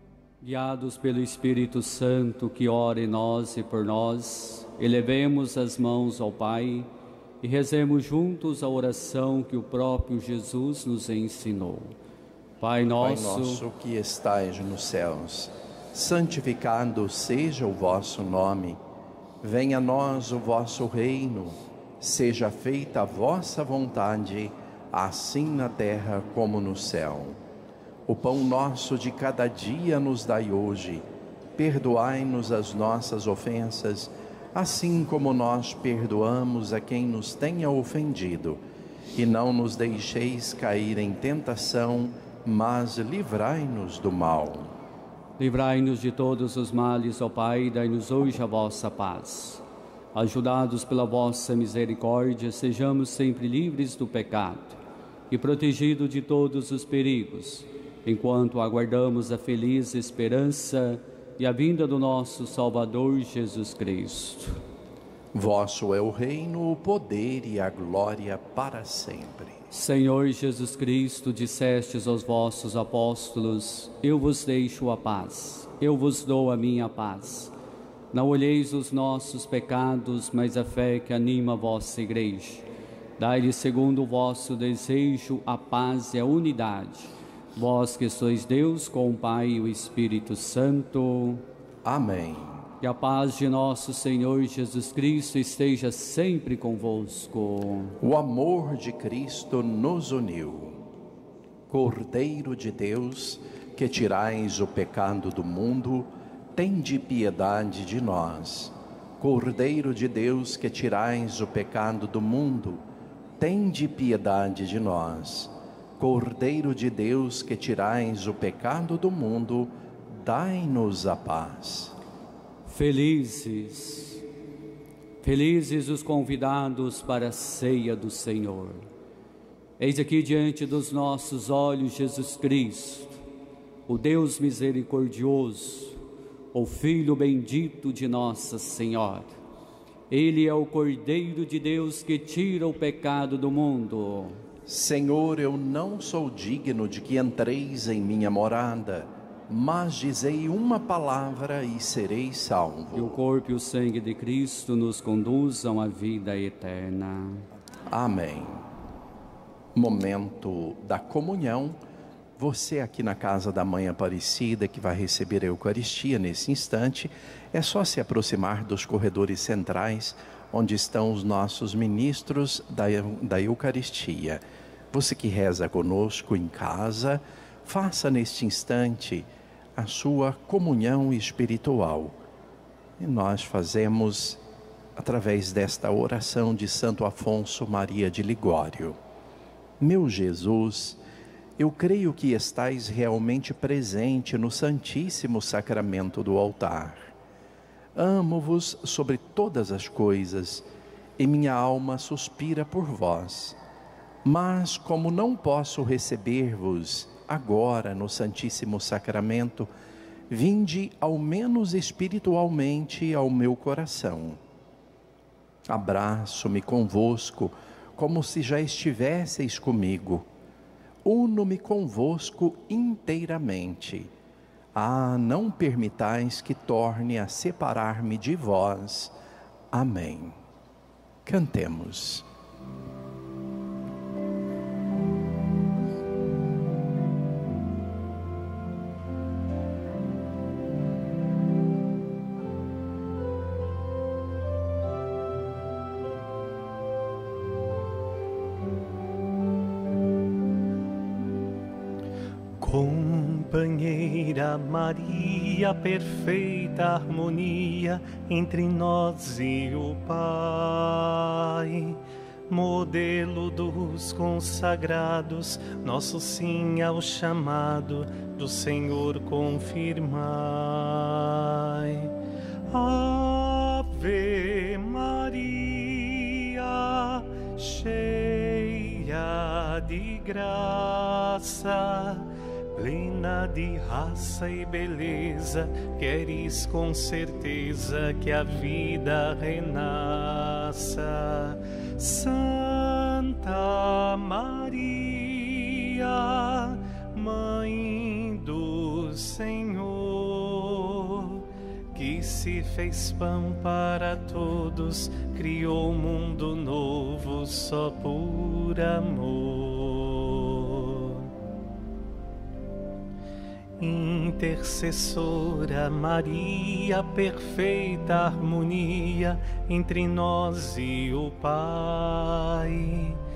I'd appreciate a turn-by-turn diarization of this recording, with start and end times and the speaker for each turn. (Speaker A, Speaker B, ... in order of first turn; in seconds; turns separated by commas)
Speaker A: 0.4-6.9, Speaker A: 7.4-11.9, Speaker A: 12.6-13.6, Speaker B: 13.0-18.8, Speaker B: 19.4-27.4, Speaker B: 28.1-38.6, Speaker B: 39.1-44.7, Speaker A: 45.4-49.6, Speaker A: 50.1-54.8, Speaker A: 55.3-64.6, Speaker B: 65.3-69.6, Speaker A: 69.7-77.5, Speaker A: 78.1-82.6, Speaker A: 83.2-91.4, Speaker B: 91.8-92.6, Speaker A: 92.8-98.0, Speaker B: 98.0-100.8, Speaker B: 101.7-112.8, Speaker B: 113.4-121.9, Speaker A: 122.7-124.2, Speaker A: 125.2-128.8, Speaker A: 129.8-133.2, Speaker A: 133.9-136.0, Speaker A: 136.5-139.3, Speaker A: 140.1-144.4, Speaker B: 144.7-153.2, Speaker A: 152.9-157.4, Speaker B: 157.9-158.6, Speaker B: 159.7-161.8, Speaker B: 162.4-182.2, Speaker B: 183.0-184.4, Speaker B: 185.0-189.0, Speaker B: 189.8-191.0, Speaker B: 191.6-197.1, Speaker B: 197.9-200.7, Speaker B: 201.2-203.6, Speaker B: 204.2-209.7, Speaker B: 210.3-214.4, Speaker B: 215.7-220.2, Speaker B: 221.0-224.1, Speaker B: 224.7-229.1, Speaker B: 229.7-230.4, Speaker B: 231.2-232.2, Speaker C: 252.6-272.1, Speaker C: 272.7-311.3, Speaker C: 313.8-323.2